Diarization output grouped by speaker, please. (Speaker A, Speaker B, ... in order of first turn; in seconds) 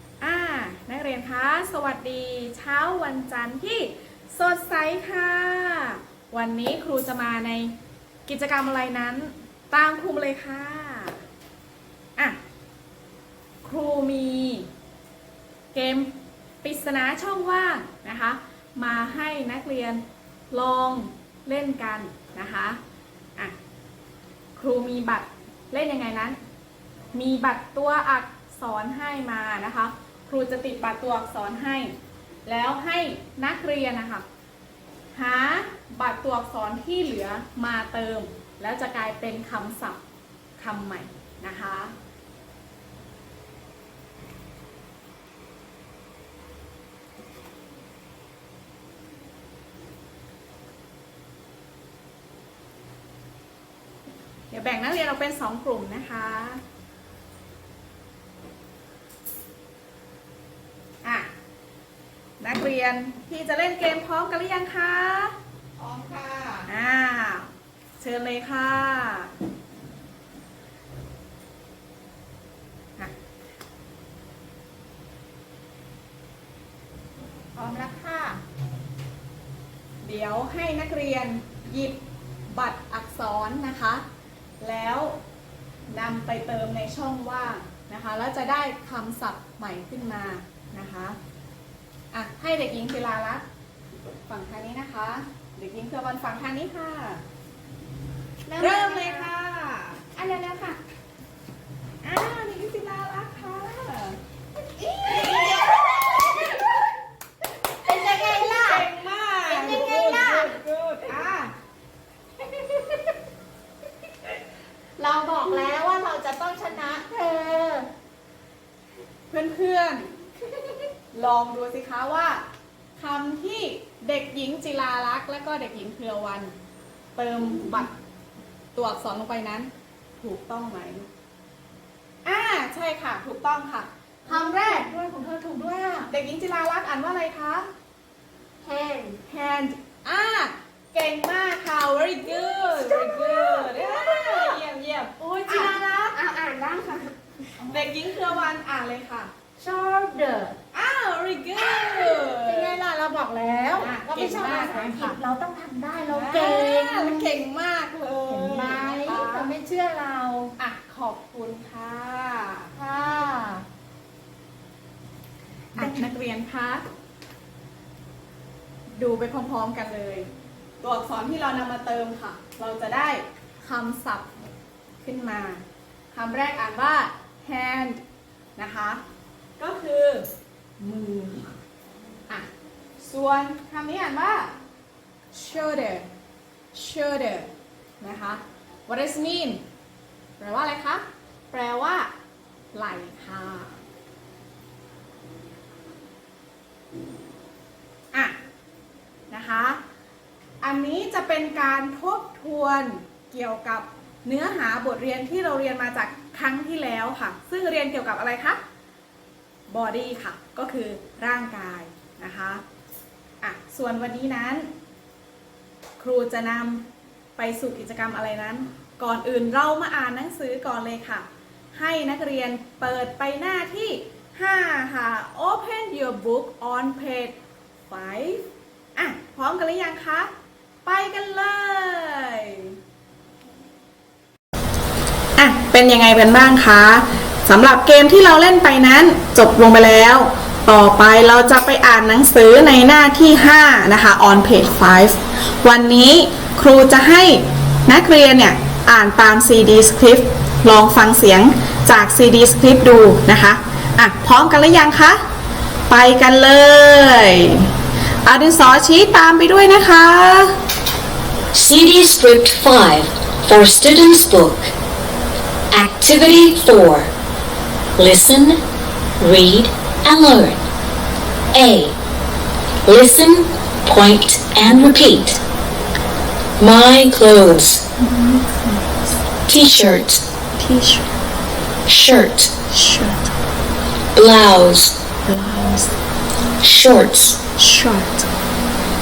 Speaker A: 0.2-7.7, 8.2-11.2, 13.6-14.7, 15.7-22.8, 24.6-26.4, 27.1-31.9, 32.5-34.2, 35.1-40.0, 40.6-41.9, 54.5-56.6, 61.0-61.3, 62.4-65.3, 66.7-69.3, 80.0-82.0, 82.5-84.0, 84.6-85.2, 85.9-91.2, 92.1-93.5, 94.3-97.2, 98.6-100.1, 102.0-104.2, 104.9-106.5, 108.0-111.5, 119.3-120.2, 121.1-122.4, 123.0-126.5, 127.2-127.9, 128.7-131.1, 132.2-134.9, 136.1-137.7, 139.3-145.8, 147.6-149.3, 150.7-152.8, 153.7-155.2, 156.1-159.5, 160.6-162.8, 165.8-166.8, 169.0-170.3, 170.8-174.3, 175.0-178.0, 178.6-179.0, 179.6-180.3, 180.8-181.6, 183.0-184.5, 185.3-186.1, 186.7-189.6, 190.4-192.1, 192.7-193.8, 199.3-199.8, 200.6-208.6, 209.7-212.6, 213.4-214.7, 216.0-227.3, 227.9-230.3, 230.8-232.7, 235.4-255.2, 255.9-257.7, 258.2-260.6, 278.0-278.9, 280.6-281.0, 282.7-283.2, 285.3-285.9, 287.6-288.2
Speaker B: 65.8-66.6, 77.5-78.4, 98.5-99.3, 100.1-100.8, 104.8-106.2, 107.8-108.9, 109.5-110.6, 112.6-113.0, 115.0-117.9, 134.2-136.1, 138.6-139.2, 142.3-144.5, 145.2-147.9, 149.6-150.6, 151.6-157.3, 158.3-160.5, 162.8-163.7
Speaker C: 261.5-264.7, 265.7-267.1, 268.0-268.6, 269.2-270.6, 271.5-272.0, 272.8-275.4, 276.6-277.8, 279.4-280.2, 281.9-282.6, 284.1-285.0, 286.6-287.4